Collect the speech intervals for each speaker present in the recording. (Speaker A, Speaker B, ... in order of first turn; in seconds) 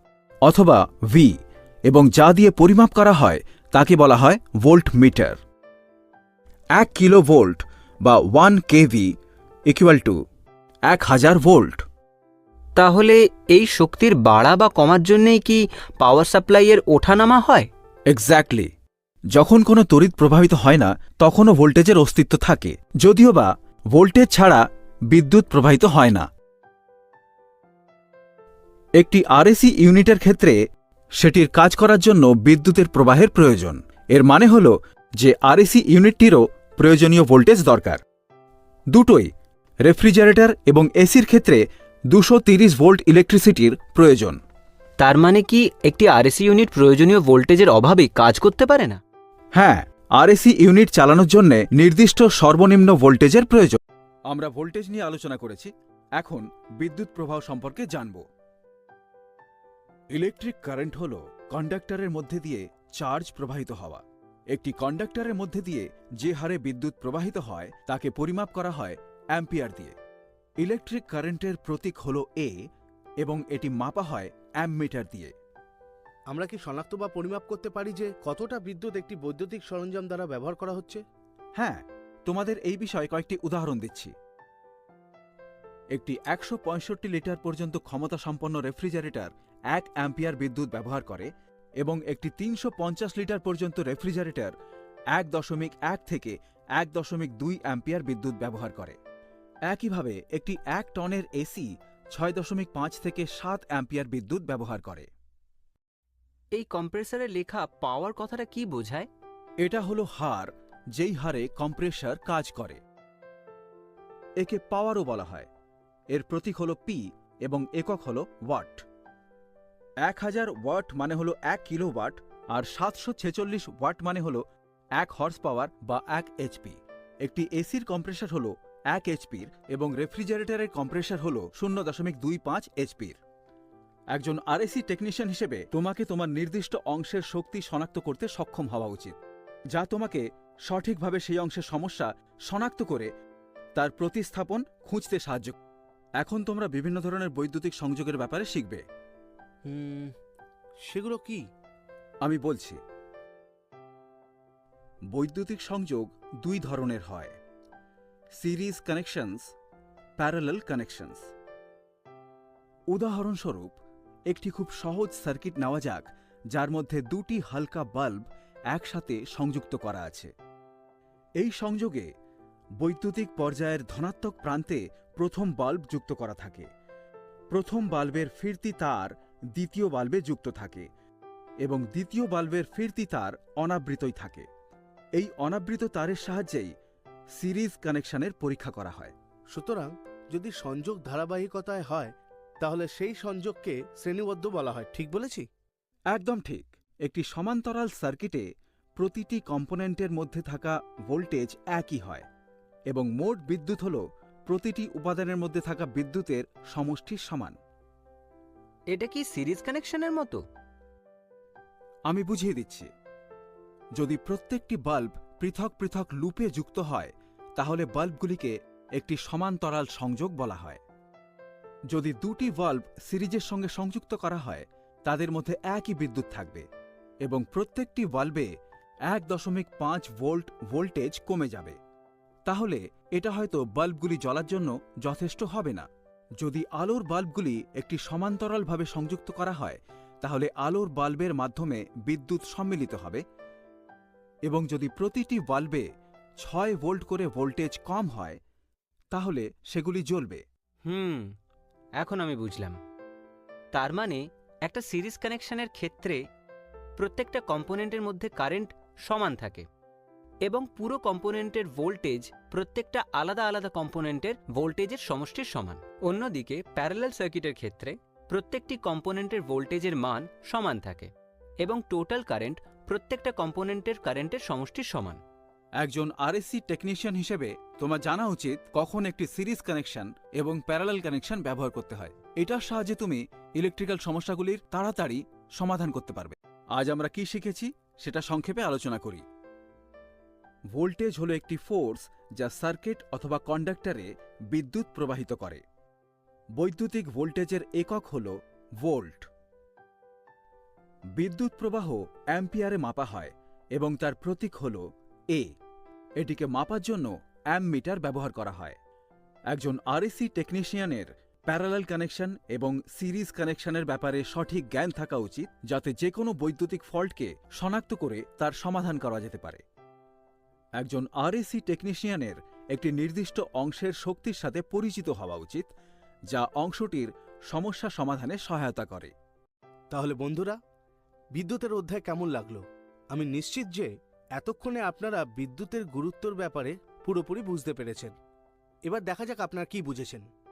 Speaker A: 0.4-1.3, 1.9-5.4, 6.8-9.1, 9.7-10.2, 10.9-11.8, 18.1-18.7, 19.3-26.3, 29.0-30.6, 31.2-38.0, 38.9-39.3, 39.8-44.4, 49.5-58.2, 60.1-69.9, 70.6-72.5, 73.2-75.3, 81.6-84.1, 85.9-94.5, 95.1-99.0, 99.7-105.1, 109.6-112.8, 114.4-115.5, 116.1-118.8, 120.0-124.4, 125.0-133.2, 134.1-139.2, 139.7-143.1, 143.8-145.6, 146.2-148.8, 152.2-152.8, 155.1-157.3, 158.4-159.5, 160.2-161.3, 162.9-163.7, 164.3-170.3, 171.4-172.1, 172.8-176.7, 177.5-180.9, 181.6-184.4, 185.2-186.7, 187.4-189.1, 196.1-198.4, 199.0-202.2, 202.9-207.5, 212.1-212.9, 214.0-220.8, 221.9-226.6, 227.2-228.5, 229.1-231.8, 232.5-235.9, 236.4-243.2, 244.5-245.8, 246.4-248.4, 249.1-250.4, 275.8-289.2, 290.7-295.6, 296.6-299.3, 301.2-305.5, 306.2-308.8, 309.5-319.6, 320.8-325.7, 326.3-329.1
Speaker B: 12.8-17.7, 45.0-49.0, 106.5-109.1, 208.9-210.4, 250.8-251.3, 252.0-252.8, 253.7-256.2, 257.0-259.6, 260.4-271.1, 271.6-275.2
Speaker C: 76.3-81.0, 149.7-150.1, 150.8-151.4, 189.5-195.4, 329.9-330.6, 331.3-338.1, 338.8-340.2